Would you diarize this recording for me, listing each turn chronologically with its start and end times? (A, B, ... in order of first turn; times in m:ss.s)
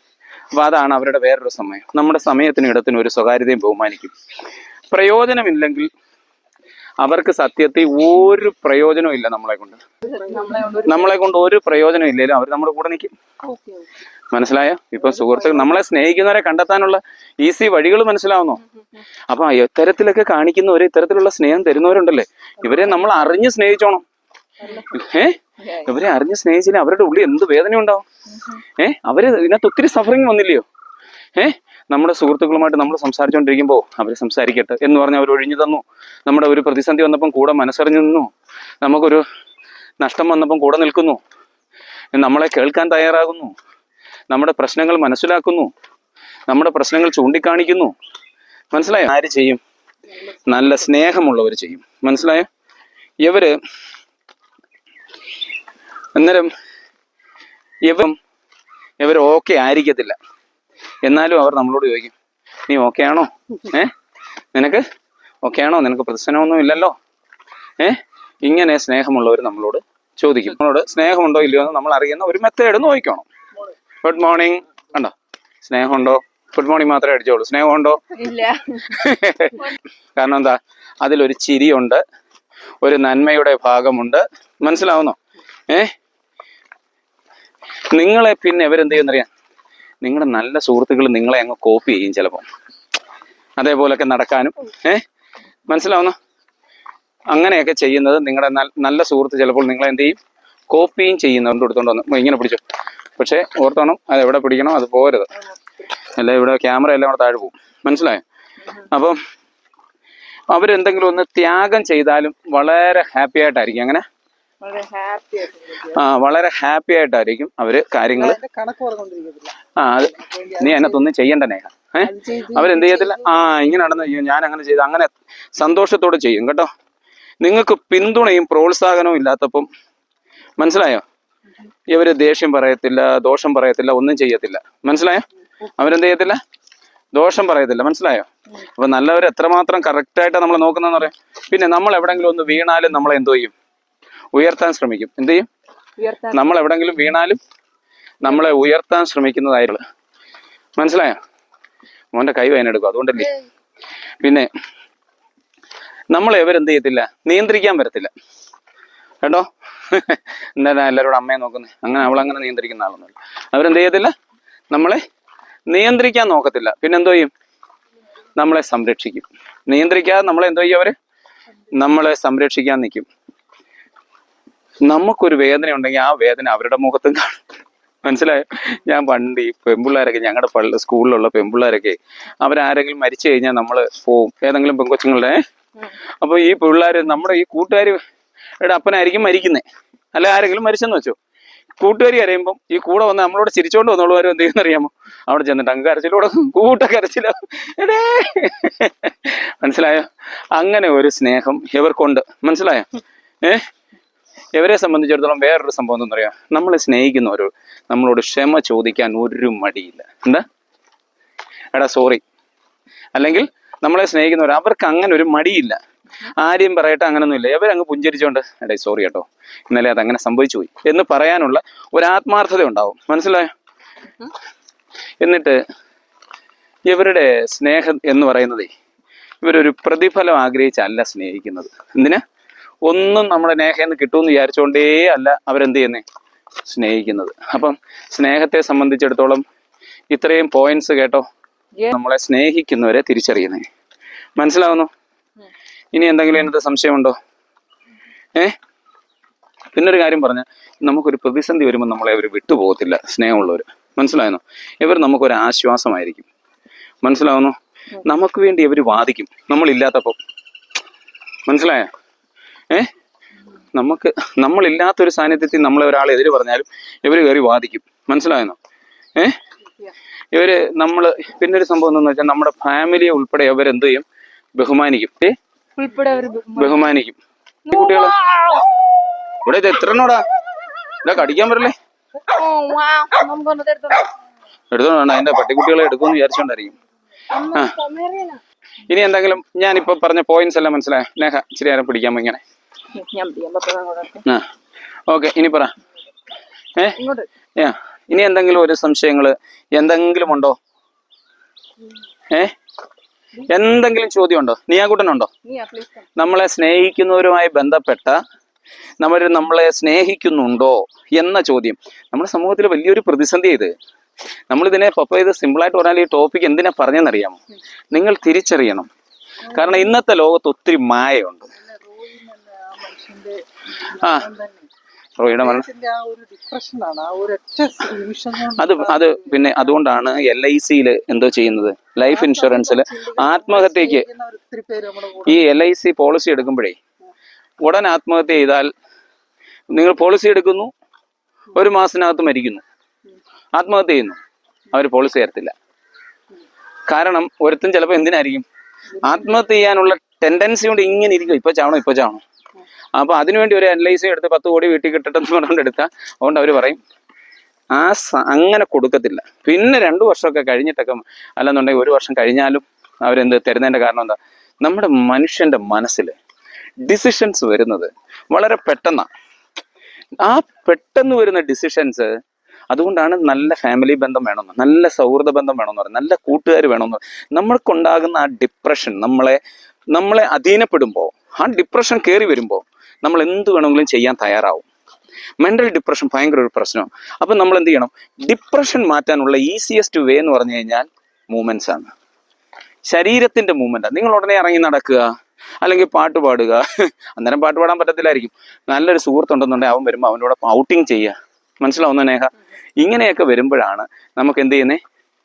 0:00.5-0:04.1 A
0:04.9-0:05.9 A
0:07.0-0:09.8 A
0:10.0-0:11.1 B
0:10.1-0:10.9 C
0:10.8-0:13.1 A
0:13.5-0:13.8 B
0:14.3-0:18.6 A
0:19.3-0:24.0 A
0:24.6-0:24.9 B
0:24.9-0:28.0 A
0:25.6-0:25.9 B
0:28.3-0:28.6 B
0:28.8-0:30.6 A
0:31.4-0:38.3 A
0:38.8-0:39.2 A
0:40.0-0:41.2 A
0:42.1-0:43.5 A
0:44.3-0:45.7 A
0:46.5-0:47.9 A
0:48.7-0:49.6 A
0:50.4-0:52.5 A
0:53.2-0:53.6 A
0:56.1-0:56.5 A
0:57.8-0:58.1 A
0:59.0-1:00.2 A
1:01.0-1:02.1 A
1:02.7-1:03.9 A
1:04.5-1:04.8 A
1:05.4-1:06.9 A
1:07.8-1:13.2 A
1:14.0-1:18.1 A
1:18.1-1:19.0 B
1:18.9-1:22.0 A
1:22.8-1:25.2 A
1:27.9-1:29.3 A
1:30.0-1:32.4 A
1:33.6-1:35.0 A
1:35.7-1:36.2 A
1:37.3-1:40.2 A
1:40.7-1:42.6 A
1:43.2-1:45.3 A
1:45.4-1:45.8 B
1:46.1-1:48.2 A
1:48.9-1:49.2 A
1:50.5-1:54.0 A
1:54.6-1:56.0 B
1:55.9-1:58.4 A
1:58.1-1:59.6 C
1:59.8-2:06.7 A
2:00.1-2:01.0 C
2:02.0-2:03.7 C
2:07.4-2:09.7 A
2:10.6-2:11.0 A
2:11.9-2:15.2 A
2:15.8-2:16.4 A
2:17.1-2:23.5 A
2:24.3-2:25.5 A
2:26.0-2:26.6 B
2:26.3-2:27.4 A
2:28.2-2:28.5 B
2:28.2-2:29.8 A
2:30.8-2:31.2 A
2:32.1-2:33.3 A
2:34.2-2:34.5 A
2:36.1-2:38.1 A
2:39.2-2:44.1 A
2:44.7-2:45.0 A
2:45.7-2:47.3 A
2:48.4-2:50.9 A
2:51.7-2:53.1 A
2:54.8-2:57.4 A
2:58.0-3:05.4 A
3:06.2-3:08.0 A
3:08.6-3:11.2 A
3:11.8-3:22.9 A
3:24.5-3:30.4 A
3:31.7-3:32.2 A
3:33.1-3:35.8 A
3:36.4-3:43.5 A
3:45.2-3:45.6 A
3:46.8-3:48.7 A
3:49.4-3:52.2 A
3:52.8-3:56.0 A
3:56.6-3:59.4 A
4:00.1-4:01.2 A
4:01.9-4:03.6 A
4:04.4-4:04.9 A
4:05.9-4:07.2 A
4:09.7-4:16.2 A
4:17.0-4:20.2 A
4:21.5-4:21.9 A
4:23.7-4:28.6 A
4:30.3-4:34.0 A
4:34.6-4:35.4 A
4:35.8-4:36.9 B
4:36.6-4:37.2 A
4:37.6-4:38.7 B
4:37.7-4:38.2 A
4:39.4-4:40.2 A
4:41.0-4:41.7 A
4:42.3-4:44.1 B
4:44.7-4:46.7 A
4:47.3-4:48.4 B
4:48.9-4:52.4 A
4:52.9-4:54.2 B
4:55.1-4:55.7 A
4:57.0-4:57.3 B
4:57.6-5:00.6 A
5:03.5-5:05.3 A
5:05.4-5:06.0 B
5:06.2-5:08.2 A
5:09.0-5:13.7 A
5:14.5-5:17.4 A
5:17.9-5:18.9 A
5:19.5-5:19.9 C
5:19.5-5:21.5 A
5:21.6-5:24.7 C
5:24.0-5:24.2 A
5:25.2-5:25.7 A
5:25.4-5:29.6 C
5:28.6-5:34.0 A
5:32.0-5:35.4 C
5:35.3-5:36.8 A
5:37.6-5:38.7 A
5:39.7-5:40.7 A
5:41.5-5:42.6 A
5:43.5-5:44.2 A
5:44.7-5:45.5 A
5:46.9-5:48.4 A
5:49.0-5:52.2 A
5:52.9-5:56.8 A
5:57.7-6:06.1 A
6:06.8-6:09.1 A
6:10.2-6:12.1 A
6:12.7-6:19.4 A
6:19.9-6:24.7 A
6:25.4-6:31.9 A
6:32.8-6:35.1 A
6:35.6-6:44.8 A